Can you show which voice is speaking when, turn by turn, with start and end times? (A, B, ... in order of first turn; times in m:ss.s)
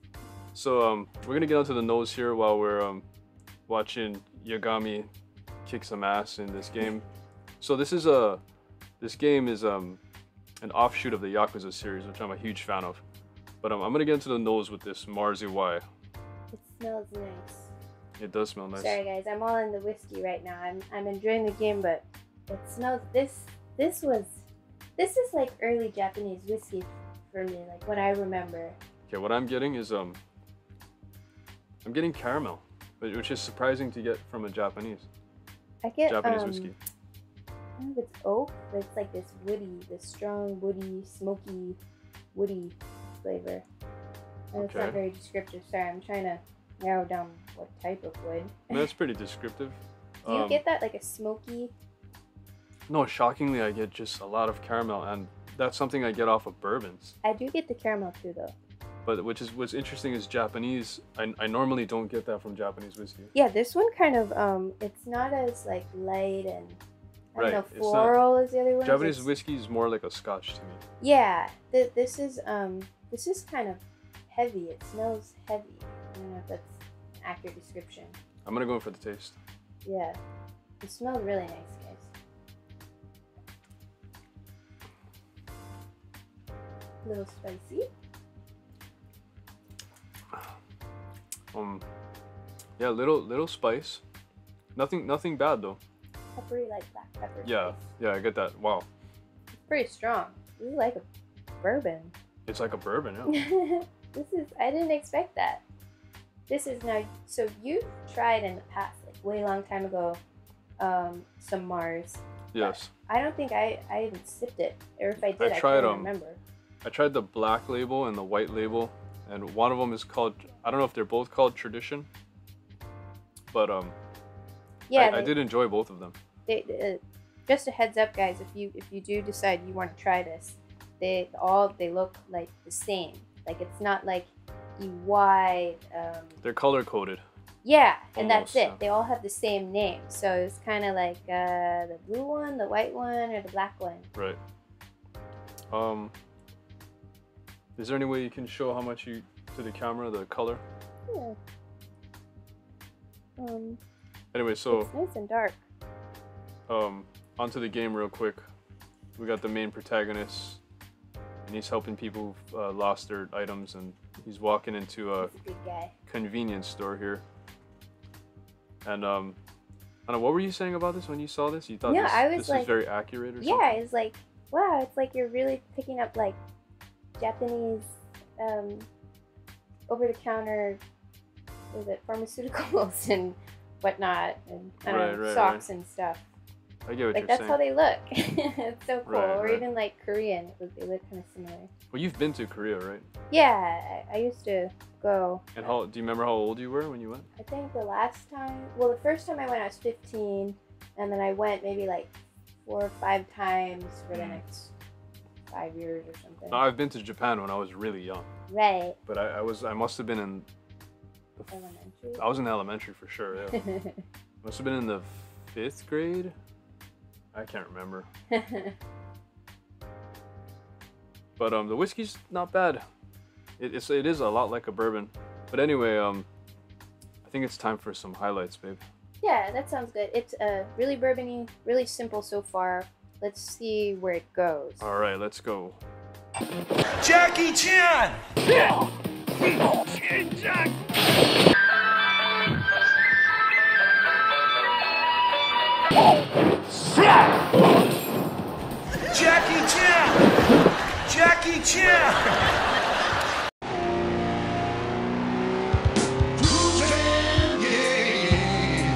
0:00.5-0:03.0 A
0:03.7-0:05.1 A
0:05.6-0:07.1 A
0:07.6-0:08.4 A
0:09.0-0:10.0 A
0:10.6-0:13.0 A
0:13.6-0:15.8 A
0:16.5-0:17.7 B
0:18.2-0:19.0 A
0:18.7-0:24.5 B
0:25.0-0:28.8 B
0:29.1-0:30.2 A
0:31.8-0:35.1 A
0:35.8-0:36.7 B
0:36.1-0:36.8 A
0:37.8-0:41.8 B
0:42.3-0:43.6 B
0:44.5-0:48.9 B
0:44.6-0:45.0 A
0:48.7-0:50.6 A
0:50.2-0:51.7 B
0:52.9-0:57.2 A
0:57.2-0:58.6 B
0:59.0-1:03.3 A
1:03.3-1:06.8 B
1:07.4-1:09.3 B
1:07.4-1:08.2 A
1:08.8-1:10.8 A
1:11.0-1:18.2 B
1:18.4-1:19.4 A
1:19.8-1:20.2 B
1:20.8-1:22.1 B
1:27.0-1:27.9 B
1:31.5-1:31.8 A
1:32.8-1:34.0 A
1:34.8-1:35.8 A
1:36.4-1:37.8 B
1:37.4-1:38.9 A
1:39.6-1:41.0 B
1:41.6-1:42.1 B
1:42.5-1:43.4 A
1:43.3-1:45.6 B
1:46.5-1:50.2 B
1:50.8-1:56.4 B
1:52.5-1:52.9 A
1:55.2-1:56.1 A
1:56.8-2:02.1 A
2:03.5-2:04.0 A
2:04.9-2:05.3 B
2:04.9-2:06.2 A
2:06.5-2:16.4 B
2:16.4-2:17.2 A
2:17.6-2:24.1 B
2:18.1-2:18.8 A
2:25.7-2:26.2 A
2:27.8-2:30.6 A
2:31.1-2:31.4 B
2:33.4-2:33.8 B
2:34.3-2:34.9 A
2:34.7-2:35.6 B
2:36.7-2:38.4 A
2:39.2-2:40.6 A
2:41.4-2:45.3 A
2:45.2-2:45.9 B
2:46.1-2:47.2 A
2:48.8-2:49.4 A
2:50.1-2:53.8 A
2:51.8-2:52.7 B
2:53.4-2:56.4 B
2:57.2-2:58.9 B
2:59.9-3:00.8 B
3:01.7-3:06.2 B
3:04.8-3:05.7 A
3:06.9-3:07.6 A
3:07.1-3:11.7 B
3:09.1-3:09.7 A
3:11.9-3:13.1 A
3:13.3-3:15.7 B
3:15.6-3:17.3 A
3:17.4-3:24.7 B
3:24.1-3:24.4 A
3:25.5-3:26.7 B
3:26.5-3:28.3 A
3:28.5-3:29.0 B
3:29.1-3:30.5 A
3:31.4-3:33.6 A
3:31.5-3:32.2 B
3:33.4-3:34.0 B
3:34.4-3:36.4 A
3:37.3-3:38.1 A
3:38.3-3:38.8 B
3:41.4-3:42.8 A
3:43.6-3:46.3 A
3:47.2-3:48.8 A
3:49.2-3:54.8 B
3:54.8-3:55.8 A
3:57.0-3:58.2 C
4:09.1-4:10.2 C
4:11.1-4:12.3 C
4:17.5-4:18.4 C